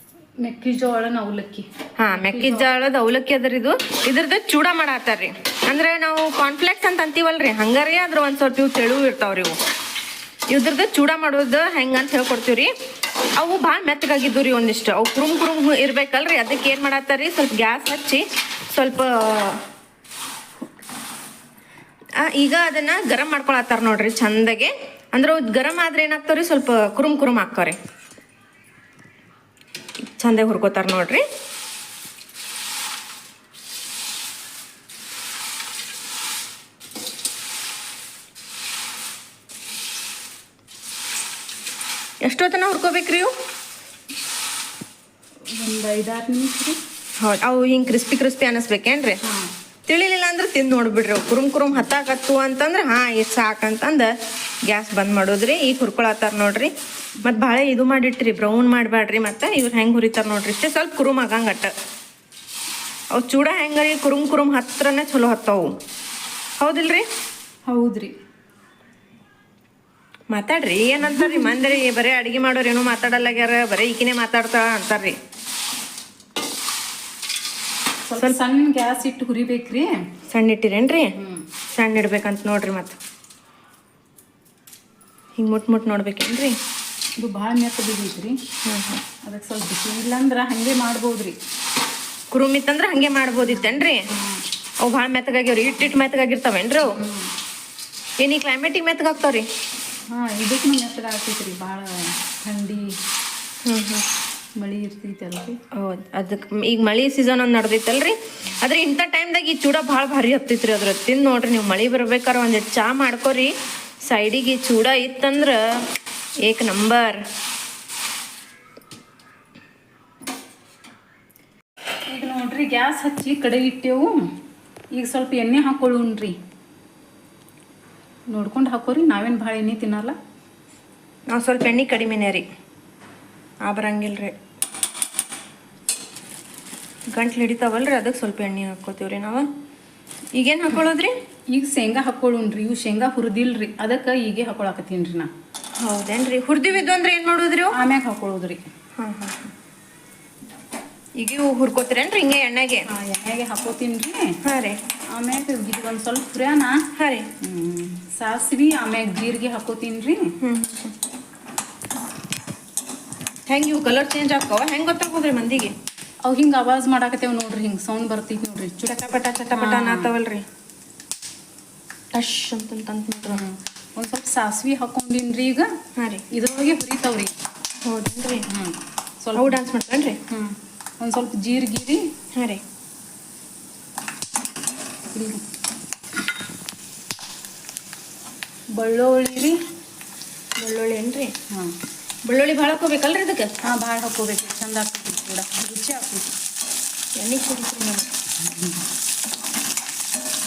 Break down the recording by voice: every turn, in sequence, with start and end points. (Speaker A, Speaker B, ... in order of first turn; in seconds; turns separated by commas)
Speaker A: 0.4-2.7, Speaker B: 2.0-9.6, Speaker B: 10.5-12.7, Speaker B: 13.4-19.6, Speaker B: 22.2-27.8, Speaker B: 30.1-31.2, Speaker B: 42.2-43.3, Speaker A: 45.5-46.8, Speaker B: 47.2-49.2, Speaker A: 49.3-49.5, Speaker B: 49.9-54.1, Speaker B: 54.6-61.7, Speaker B: 63.1-65.7, Speaker B: 66.6-67.0, Speaker A: 67.7-68.1, Speaker B: 70.3-75.1, Speaker A: 71.2-71.6, Speaker A: 78.1-79.9, Speaker B: 80.3-81.2, Speaker A: 81.2-81.5, Speaker B: 81.7-83.0, Speaker B: 85.4-86.6, Speaker A: 87.2-88.4, Speaker B: 88.7-89.0, Speaker A: 89.2-91.4, Speaker B: 92.3-94.0, Speaker A: 93.5-94.4, Speaker B: 94.8-97.0, Speaker A: 96.9-97.3, Speaker B: 98.2-99.5, Speaker A: 100.1-102.9, Speaker B: 103.7-104.0, Speaker A: 104.6-105.6, Speaker B: 105.7-115.6, Speaker B: 116.4-117.2, Speaker A: 122.1-124.2, Speaker A: 124.9-126.4, Speaker A: 128.3-130.2, Speaker B: 131.3-132.4, Speaker B: 133.7-134.3, Speaker B: 137.1-139.5, Speaker B: 140.3-141.1, Speaker A: 141.5-145.3, Speaker B: 145.8-147.8, Speaker A: 147.7-148.6, Speaker B: 149.0-149.5, Speaker B: 151.2-152.9, Speaker A: 152.9-154.4, Speaker B: 154.4-154.8, Speaker A: 155.1-156.9, Speaker B: 156.9-157.3, Speaker A: 157.4-160.3, Speaker B: 160.4-160.9, Speaker B: 163.5-165.7, Speaker A: 166.2-170.1, Speaker B: 168.8-170.4, Speaker B: 172.1-173.4, Speaker A: 173.3-175.7, Speaker B: 176.0-176.2, Speaker A: 176.3-177.3, Speaker B: 177.8-178.5, Speaker A: 178.5-179.6, Speaker B: 179.3-180.2, Speaker A: 180.3-182.1, Speaker B: 182.3-182.6, Speaker A: 185.1-185.4, Speaker A: 188.8-189.6, Speaker B: 190.6-191.3, Speaker B: 192.2-193.5, Speaker A: 193.6-196.3, Speaker B: 197.2-198.1, Speaker A: 198.4-198.8